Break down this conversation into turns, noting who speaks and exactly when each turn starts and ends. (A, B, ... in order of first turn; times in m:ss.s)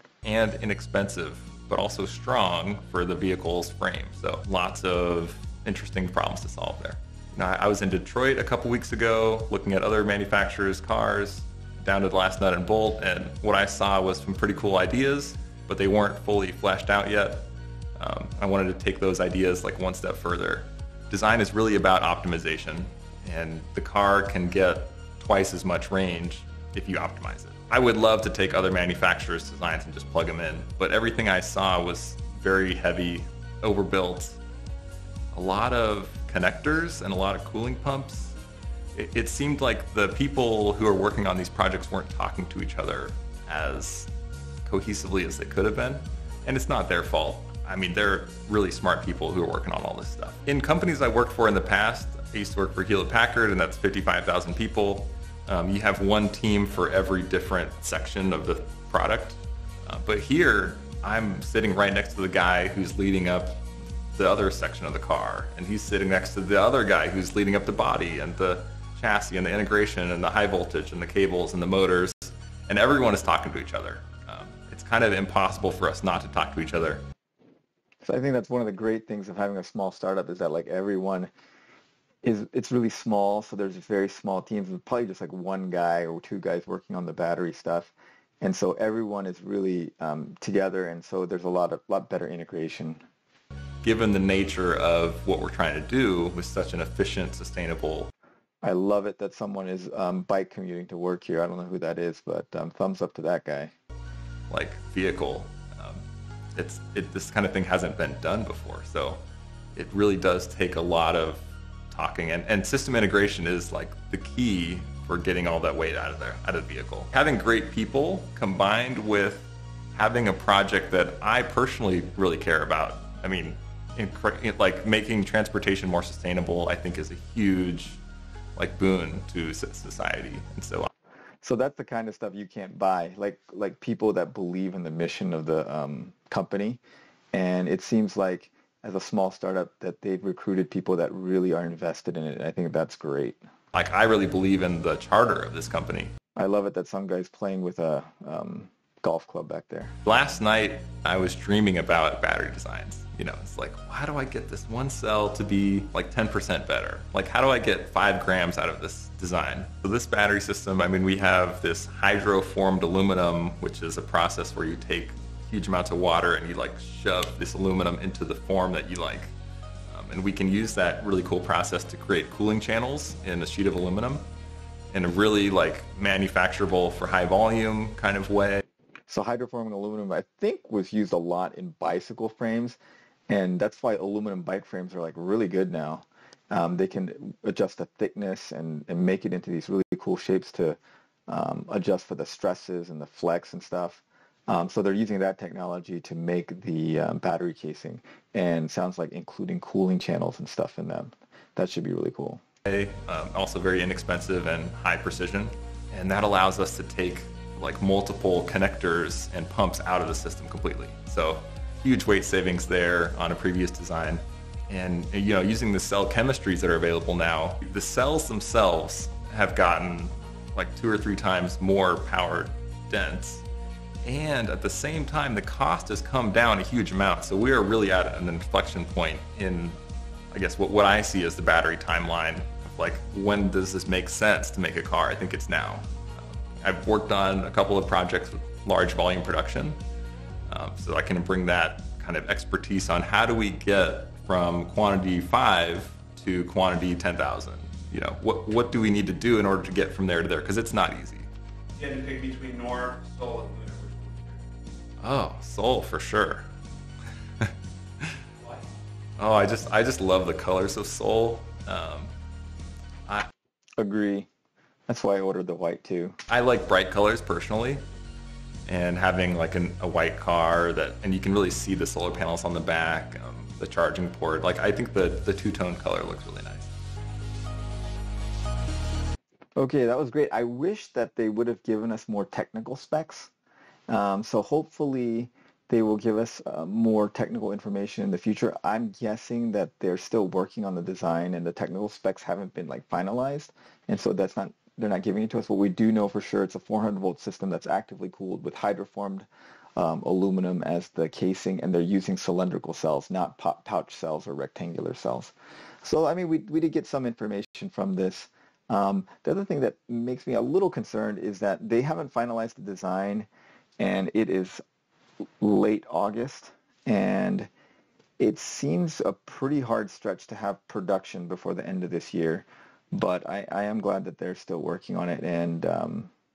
0:00.2-0:34.4 A
0:35.3-0:38.4 A
0:38.9-0:44.1 A
0:44.6-1:03.6 A
1:04.2-1:17.0 A
1:18.0-1:21.3 B
1:22.2-1:33.0 B
1:33.8-1:38.1 A
1:38.6-1:43.7 B
1:44.5-1:46.0 A
1:46.6-1:49.2 A
1:49.7-2:08.0 A
2:08.6-2:10.9 A
2:11.4-2:16.8 B
2:17.3-2:23.4 B
2:23.7-2:26.1 A
2:26.4-2:29.9 B
2:30.0-2:49.3 A
2:49.9-2:54.2 A
2:54.9-2:58.6 A
2:59.1-3:02.8 B
3:03.3-3:22.4 B
3:22.6-3:43.4 A
3:44.0-3:49.8 A
3:50.3-3:59.8 A
4:00.5-4:11.3 A
4:11.8-4:14.4 C
4:15.0-4:16.4 A
4:17.4-4:18.2 A
4:19.2-4:22.1 A
4:23.8-4:24.3 B
4:24.9-4:26.2 B
4:26.3-4:27.8 A
4:28.6-4:36.7 A
4:39.6-4:43.3 B
4:43.9-5:13.3 B
5:13.8-5:14.6 B
5:15.4-5:17.5 B
5:18.2-5:26.1 B